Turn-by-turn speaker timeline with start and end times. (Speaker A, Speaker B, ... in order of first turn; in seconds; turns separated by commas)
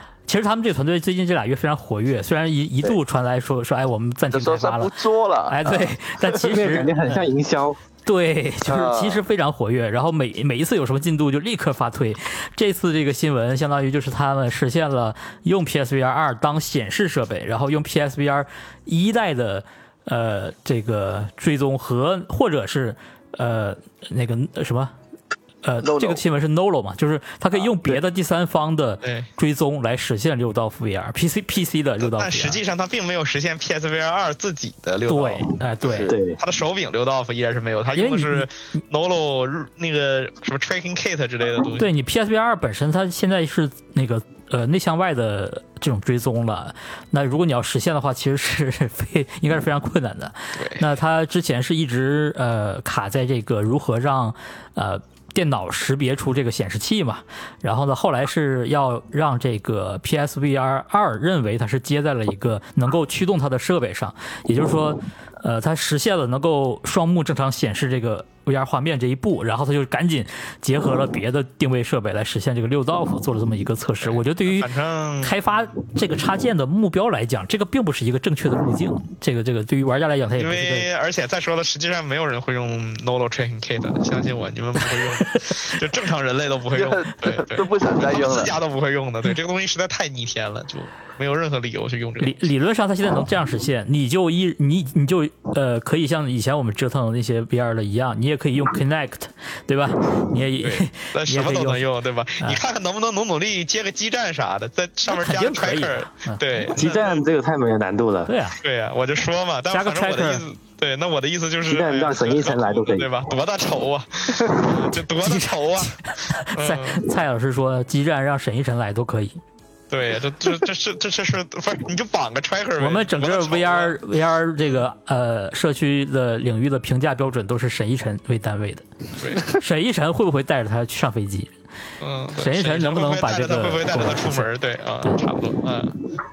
Speaker A: 0.3-4.9, Speaker B: 4.3-6.3, Speaker A: 5.5-7.2, Speaker C: 6.4-7.8, Speaker A: 8.0-24.9, Speaker B: 8.7-9.2, Speaker A: 25.6-32.6, Speaker B: 25.8-26.2, Speaker D: 29.0-29.3, Speaker D: 32.0-41.9, Speaker A: 35.1-36.1, Speaker B: 35.9-36.1, Speaker C: 36.1-36.4, Speaker A: 38.0-38.5, Speaker A: 41.7-74.7, Speaker D: 50.6-50.9, Speaker D: 74.0-75.4, Speaker A: 75.2-80.9, Speaker D: 80.4-92.5, Speaker A: 84.8-85.6, Speaker B: 86.7-88.6, Speaker A: 92.2-101.8, Speaker D: 100.6-107.2, Speaker A: 105.1-106.7, Speaker C: 106.7-108.3, Speaker A: 108.2-108.6, Speaker D: 108.6-117.1, Speaker A: 109.7-110.4, Speaker C: 111.7-113.2, Speaker A: 115.2-119.4, Speaker D: 119.9-124.0, Speaker A: 122.8-131.5, Speaker D: 129.2-129.5, Speaker D: 132.0-135.9, Speaker A: 132.4-134.5